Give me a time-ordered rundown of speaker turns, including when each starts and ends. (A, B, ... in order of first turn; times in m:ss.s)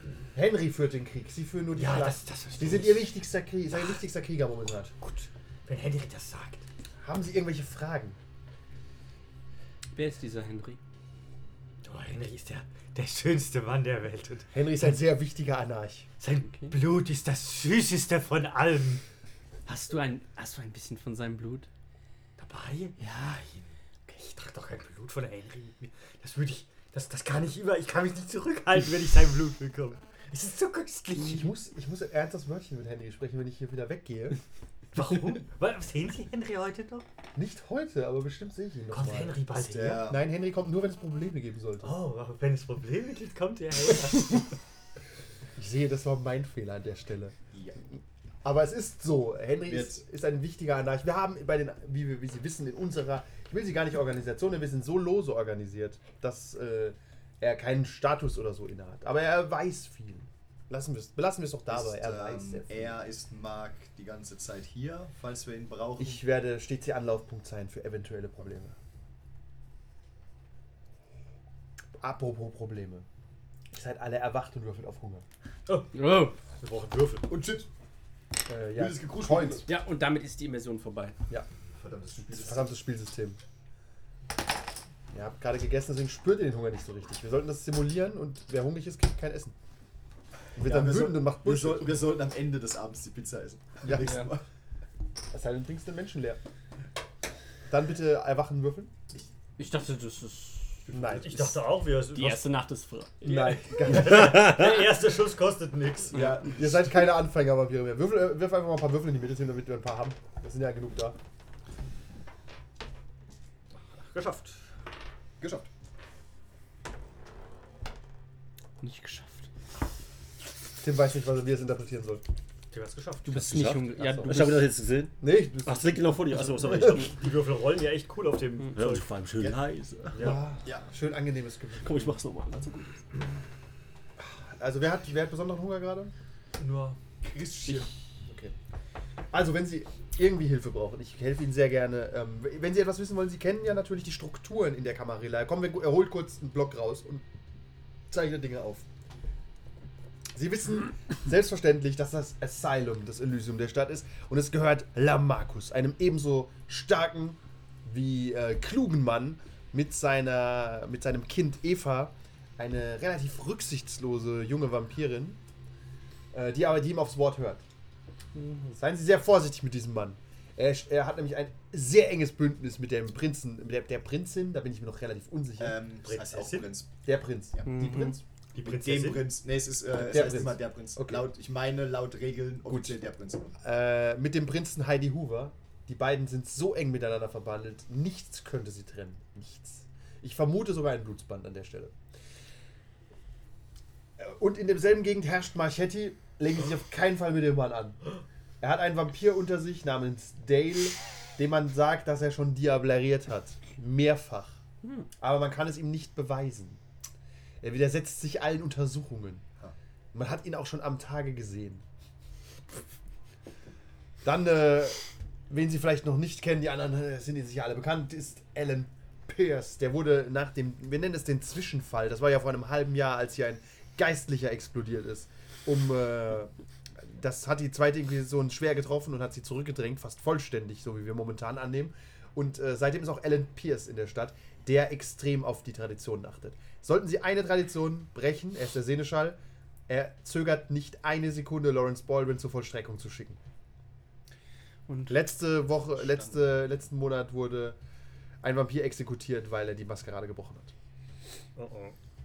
0:00.3-0:04.9 A
0:01.8-0:03.1 B
0:05.0-0:06.6 B
0:07.0-0:08.2 A
0:09.9-0:10.8 C
0:11.8-0:14.5 B
0:14.5-0:16.1 A
0:16.2-0:19.0 B
0:19.7-0:21.7 C
0:22.4-0:23.1 B
0:23.0-0:23.6 C
0:24.1-0:31.5 B
0:31.2-0:34.4 A
0:34.9-0:37.0 B
0:37.4-0:41.9 A
0:38.9-0:40.1 B
0:39.5-0:40.2 D
0:41.8-0:44.5 B
0:45.6-0:47.4 A
0:47.5-0:47.8 D
0:48.4-1:03.0 A
0:49.7-0:50.0 D
1:01.7-1:06.2 D
1:06.0-1:08.8 A
1:12.0-1:13.0 A
1:13.7-1:15.2 A
1:15.7-1:17.3 B
1:15.9-1:16.3 C
1:17.3-1:17.7 D
1:18.5-1:19.7 A
1:18.8-1:19.7 D
1:19.6-1:21.2 C
1:21.8-1:22.7 D
1:22.3-1:23.4 A
1:25.1-1:29.5 A
1:30.5-1:32.1 A
1:30.6-1:34.4 D
1:33.8-1:34.2 A
1:35.3-1:36.4 A
1:37.7-1:38.9 A
1:39.6-1:40.9 C
1:40.9-1:41.6 A
1:41.2-1:42.5 B
1:42.1-1:43.6 C
1:43.2-1:46.2 B
1:43.2-1:44.2 A
1:46.1-1:46.8 D
1:46.2-1:51.2 A
1:54.0-1:54.6 B
1:55.4-1:55.7 D
1:58.8-1:59.5 C
2:00.8-2:02.2 A
2:02.7-2:03.3 B
2:03.2-2:04.7 C
2:03.3-2:07.2 E
2:04.0-2:04.4 A
2:05.2-2:06.0 A
2:06.8-2:09.1 B
2:08.7-2:10.3 E
2:10.1-2:10.4 B
2:10.2-2:12.2 A
2:10.2-2:10.9 D
2:11.8-2:13.1 E
2:14.2-2:16.1 A
2:16.6-2:17.0 B
2:17.2-2:17.9 D
2:18.2-2:18.5 A
2:19.3-2:27.2 A
2:28.1-2:28.8 A
2:30.3-2:45.4 A
2:46.3-2:47.6 A
2:48.7-2:55.8 A
2:55.6-2:56.9 D
2:56.0-2:56.7 B
2:57.0-2:58.1 A
2:57.6-3:03.5 D
2:57.6-2:58.2 C
2:58.5-2:59.4 B
2:59.9-3:01.3 A
3:02.6-3:03.0 A
3:03.6-3:11.9 A
3:14.2-3:18.0 A
3:18.6-3:24.6 A
3:25.2-3:26.8 A
3:27.6-3:29.4 A
3:30.1-3:31.8 A
3:34.2-3:59.4 A
3:59.9-4:03.4 A
4:04.9-4:05.2 C
4:05.1-4:07.8 A
4:05.9-4:06.4 D
4:08.4-4:10.7 A
4:11.6-4:12.0 B